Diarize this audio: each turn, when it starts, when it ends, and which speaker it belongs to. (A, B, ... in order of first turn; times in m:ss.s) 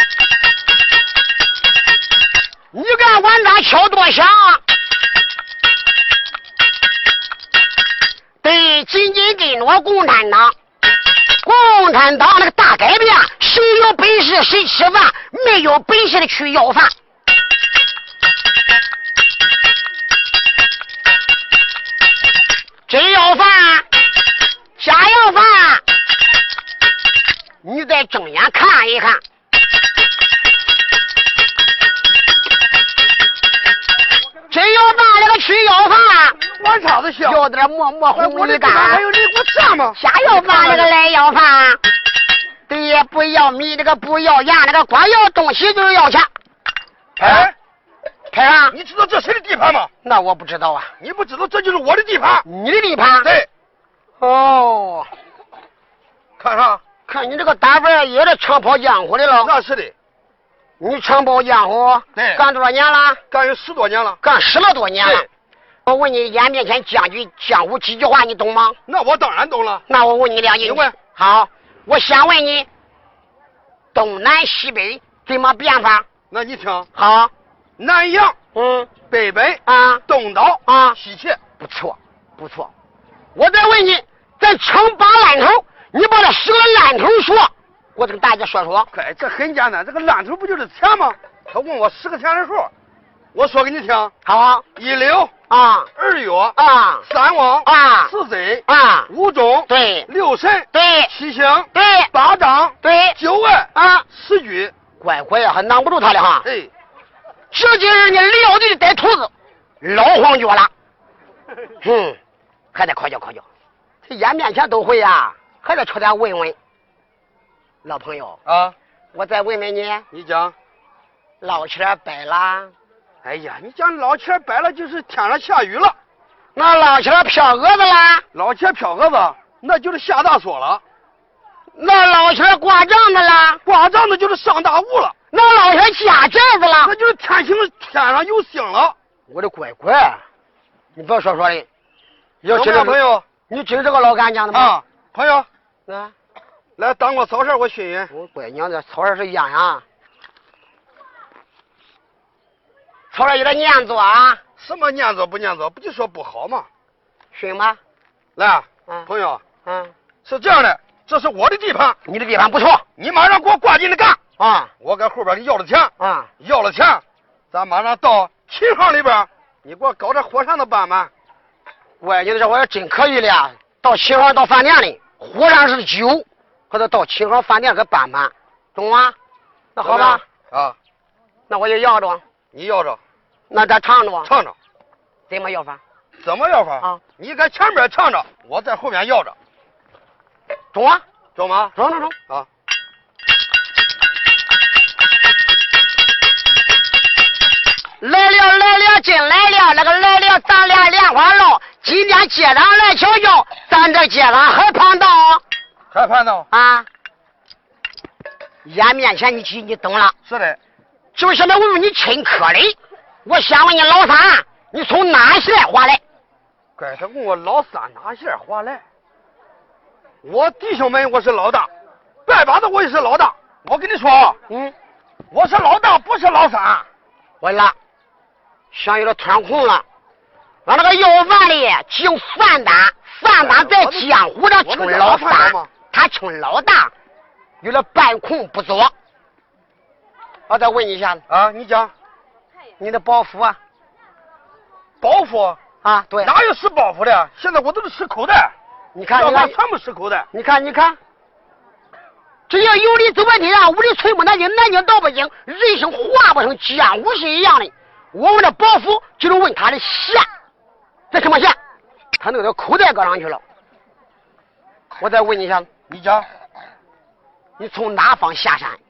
0:02.7-0:04.6 A
0:08.4-0:10.6 A
0:11.4-0:16.9 A
0:22.9-0:23.9 A
0:24.8-0:25.8 A
0:27.6-0:29.2 A
0:34.5-0:36.4 A
0:36.5-0:37.4 B
0:37.2-0:39.0 A
0:38.1-0:40.9 B
0:40.0-0:41.8 A
0:42.7-0:46.3 A
0:47.2-0:47.6 B
0:47.2-0:47.5 A
0:48.3-0:48.8 A
0:48.7-0:49.9 B
0:50.0-0:50.9 A
0:51.0-0:52.5 B
0:52.4-0:53.3 A
0:53.2-0:53.5 B
0:54.2-0:55.1 A
0:56.4-0:56.8 B
0:57.1-0:59.5 A
0:59.4-0:59.9 B
1:00.8-1:03.2 A
1:02.1-1:02.4 B
1:03.3-1:04.2 B
1:04.2-1:05.3 A
1:05.0-1:05.3 B
1:05.9-1:08.8 A
1:08.9-1:09.8 B
1:09.9-1:12.7 A
1:10.6-1:11.0 B
1:13.9-1:16.1 A
1:16.3-1:16.9 B
1:17.0-1:17.3 A
1:17.8-1:18.4 B
1:18.5-1:18.9 A
1:19.1-1:21.4 B
1:19.6-1:20.0 A
1:20.6-1:21.0 A
1:21.6-1:22.7 A
1:23.4-1:28.9 A
1:28.9-1:32.7 B
1:33.4-1:34.1 B
1:34.2-1:34.6 A
1:34.8-1:35.3 B
1:35.5-1:35.9 A
1:36.0-1:44.7 B
1:36.6-1:37.1 A
1:37.6-1:38.1 A
1:38.7-1:39.1 A
1:39.7-1:40.1 A
1:40.7-1:41.1 A
1:41.7-1:42.1 A
1:42.8-1:43.2 A
1:43.7-1:44.0 A
1:45.0-1:46.5 A
1:46.4-1:46.7 B
1:47.5-1:49.3 A
1:49.8-1:50.7 A
1:51.8-1:52.2 A
1:52.7-1:53.4 A
1:54.0-1:56.6 A
1:57.8-1:58.4 A
1:58.5-1:58.8 B
1:59.1-2:00.0 A
2:00.1-2:00.6 B
2:01.4-2:02.7 A
2:03.2-2:06.0 B
2:06.6-2:08.2 A
2:08.3-2:10.8 B
2:11.8-2:13.6 A
2:13.6-2:15.1 B
2:15.3-2:16.9 A
2:16.8-2:19.0 B
2:19.3-2:20.2 A
2:21.0-2:21.7 A
2:22.4-2:24.8 A
2:22.5-2:23.3 B
2:24.5-2:25.5 B
2:25.9-2:26.1 A
2:26.8-2:28.1 B
2:28.1-2:29.8 A
2:33.1-2:34.4 A
2:34.6-2:36.7 B
2:37.3-2:37.8 A
2:38.4-2:39.4 B
2:39.6-2:39.9 A
2:40.2-2:42.0 B
2:42.1-2:42.8 A
2:43.0-2:44.2 B
2:44.4-2:44.7 A
2:44.8-2:51.1 B
2:46.0-2:46.3 A
2:52.0-2:59.1 A
2:59.8-3:00.2 A
2:59.8-3:00.8 B
3:01.5-3:02.2 A
3:02.5-3:03.0 B
3:03.5-3:04.3 A
3:04.2-3:04.5 B
3:05.3-3:05.8 A
3:06.2-3:09.4 B
3:10.7-3:11.0 A
3:11.4-3:11.8 B
3:11.8-3:12.1 A
3:18.0-3:25.4 A
3:25.9-3:26.5 B
3:26.5-3:26.9 A
3:28.6-3:30.1 A
3:30.3-3:30.6 B
3:31.1-3:36.0 A
3:36.8-3:38.8 B
3:40.2-3:41.7 B
3:42.3-3:44.4 B
3:44.5-3:44.8 A
3:45.3-3:46.9 B
3:47.4-3:47.8 A
3:48.7-3:49.8 A
3:50.6-3:56.9 A
3:53.4-3:54.1 B
3:54.6-3:55.7 B
3:57.6-3:58.9 A
4:00.5-4:01.2 A
4:01.3-4:01.9 B
4:02.8-4:03.6 A
4:05.0-4:05.6 B
4:05.8-4:06.3 A
4:06.2-4:08.5 B
4:09.0-4:09.6 A
4:09.1-4:10.3 B
4:10.3-4:11.0 A
4:12.5-4:20.3 A
4:21.1-4:21.6 A
4:22.2-4:23.4 A
4:25.0-4:25.7 A
4:25.9-4:26.3 B
4:27.6-4:28.8 A